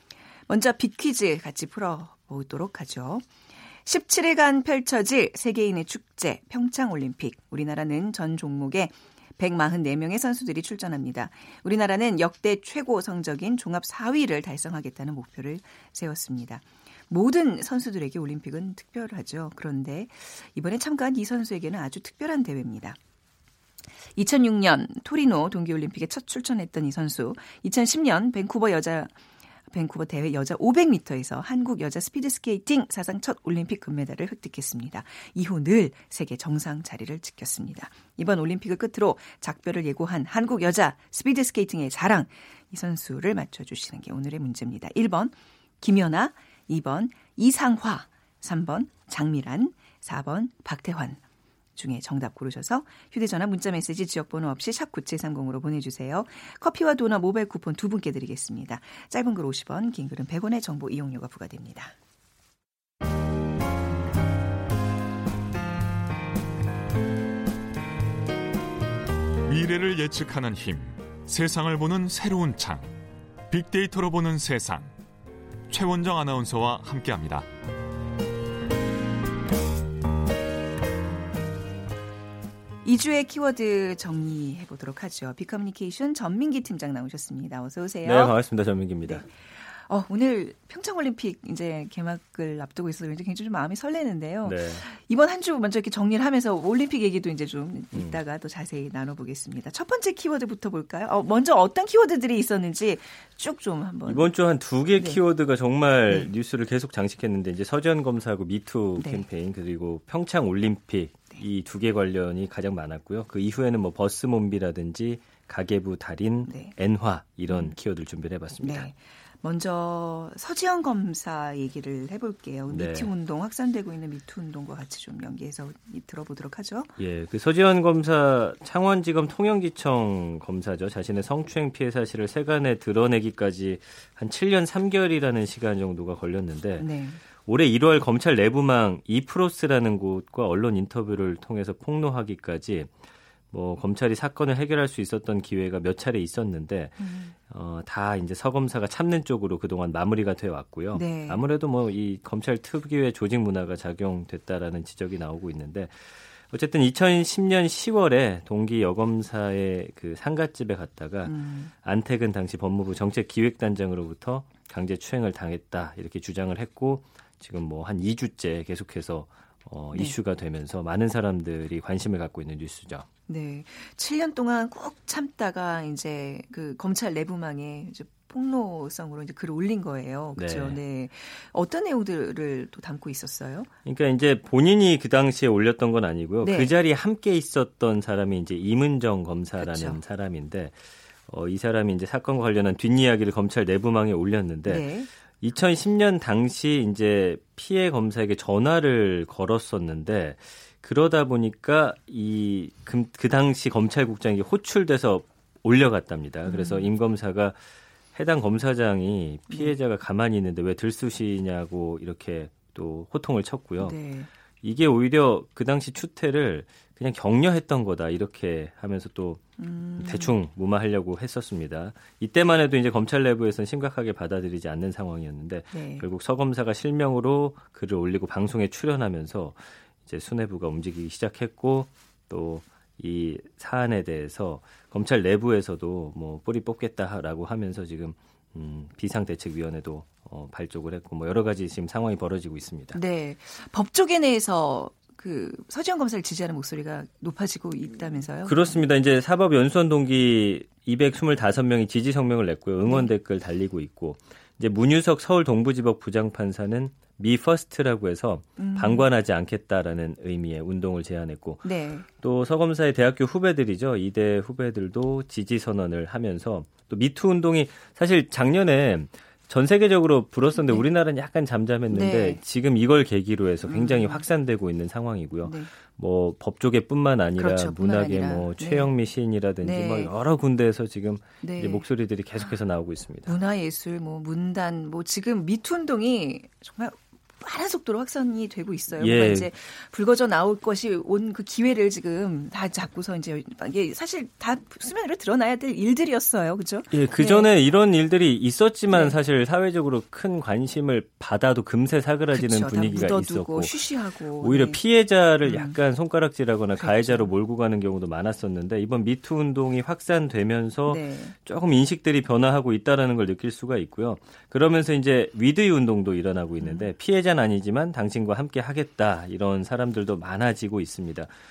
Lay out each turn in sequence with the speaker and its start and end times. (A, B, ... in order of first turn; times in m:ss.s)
0:00.5-0:03.2 A
0:03.8-0:23.0 A
0:24.2-0:29.1 A
0:29.7-0:51.2 A
0:51.8-1:01.9 A
1:09.4-1:12.9 B
1:13.5-1:14.9 B
1:15.7-1:17.4 B
1:22.8-1:28.3 A
1:28.0-1:29.2 C
1:29.9-1:44.3 A
1:34.4-1:34.8 C
1:37.9-1:38.2 C
1:44.0-1:58.9 C
1:49.0-1:49.2 A
1:56.4-1:56.7 A
1:58.6-2:06.9 A
2:02.7-2:03.1 C
2:07.0-2:16.9 C
2:16.8-2:17.2 A
2:17.4-2:22.9 C
2:23.5-2:53.1 C
2:27.0-2:27.3 A
2:30.9-2:31.4 A
2:41.2-2:41.7 A
2:53.3-3:03.7 A
3:00.4-3:00.8 C
3:03.8-3:10.8 C
3:06.4-3:06.7 A
3:09.6-3:10.0 A
3:11.3-3:14.8 C
3:14.6-3:15.1 A
3:15.4-3:27.6 C
3:26.4-3:26.9 A
3:28.1-3:34.0 C
3:33.8-3:34.3 A
3:34.6-3:39.4 C
3:39.6-3:40.3 A
3:40.0-4:03.0 C
3:45.7-3:46.0 A
4:02.9-4:08.7 A
4:08.4-4:43.4 C
4:18.6-4:19.1 A
4:21.6-4:22.1 A
4:31.9-4:32.4 A
4:33.7-4:34.2 A
4:35.4-4:35.7 A
4:37.4-4:38.9 A
4:39.6-4:40.1 A
4:41.4-4:41.8 A
4:43.2-4:57.5 A
4:49.0-4:49.5 C
4:56.9-5:03.8 C
5:02.3-5:04.8 A
5:04.4-5:21.3 C
5:05.4-5:05.8 A
5:06.8-5:07.3 A
5:10.9-5:11.3 A
5:16.6-5:16.9 A